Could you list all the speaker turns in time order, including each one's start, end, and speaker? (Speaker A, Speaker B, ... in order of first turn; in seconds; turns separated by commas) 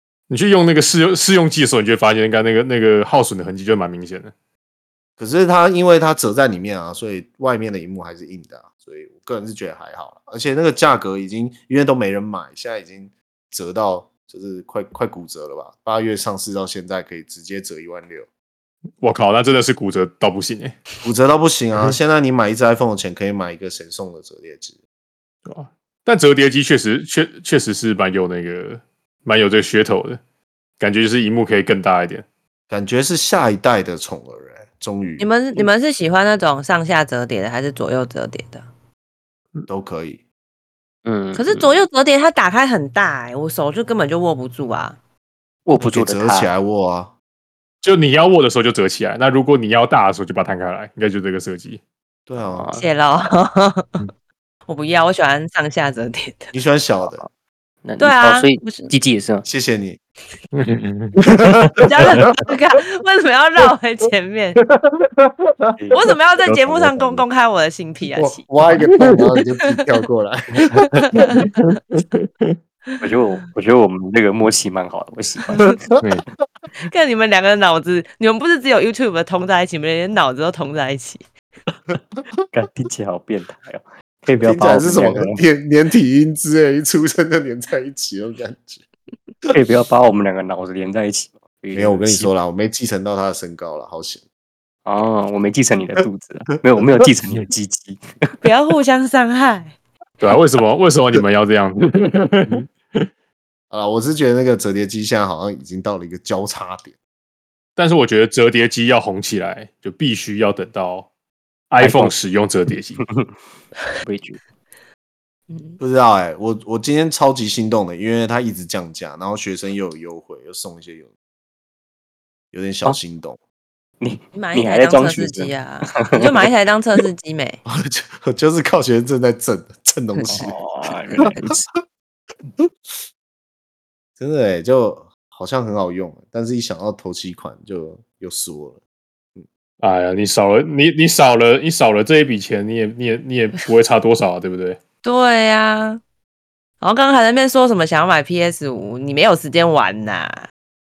Speaker A: 0.3-4.3, Speaker B: 5.2-18.3, Speaker A: 19.0-20.8, Speaker B: 21.0-24.8, Speaker A: 25.4-30.2, Speaker A: 30.8-32.2, Speaker B: 32.7-35.3, Speaker C: 35.2-38.6, Speaker B: 39.7-40.2, Speaker D: 41.0-41.8, Speaker C: 41.3-45.0, Speaker D: 45.6-46.5, Speaker B: 45.8-47.1, Speaker A: 47.8-51.8, Speaker B: 52.3-52.7, Speaker D: 52.5-52.9, Speaker C: 52.8-54.0, Speaker C: 54.7-56.5, Speaker B: 56.5-57.2, Speaker D: 57.8-59.5, Speaker C: 58.0-58.9, Speaker B: 59.5-60.0, Speaker A: 60.5-61.2, Speaker B: 61.4-62.5, Speaker C: 61.8-64.6, Speaker B: 64.7-65.8, Speaker D: 65.8-67.2, Speaker C: 65.9-68.5, Speaker B: 68.1-71.5, Speaker A: 68.8-69.2, Speaker C: 69.0-69.8, Speaker C: 70.7-71.6, Speaker A: 71.3-72.5, Speaker D: 73.0-75.6, Speaker B: 75.6-75.9, Speaker C: 76.8-81.2, Speaker D: 82.5-85.4, Speaker B: 84.4-88.8, Speaker D: 89.5-92.3, Speaker B: 91.7-94.2, Speaker D: 94.8-98.0, Speaker C: 98.4-99.8, Speaker A: 100.2-103.1, Speaker B: 103.7-106.9, Speaker A: 107.8-111.1, Speaker A: 111.7-113.0, Speaker D: 111.8-112.2, Speaker D: 114.0-114.4, Speaker C: 115.5-115.8, Speaker B: 115.8-121.1, Speaker B: 122.5-123.4, Speaker D: 124.0-126.4, Speaker C: 124.3-127.6, Speaker B: 127.7-130.6, Speaker D: 130.3-131.6, Speaker C: 131.2-131.5, Speaker B: 132.6-133.0, Speaker B: 134.2-138.8, Speaker A: 139.8-144.8, Speaker C: 145.0-146.0, Speaker C: 146.8-150.5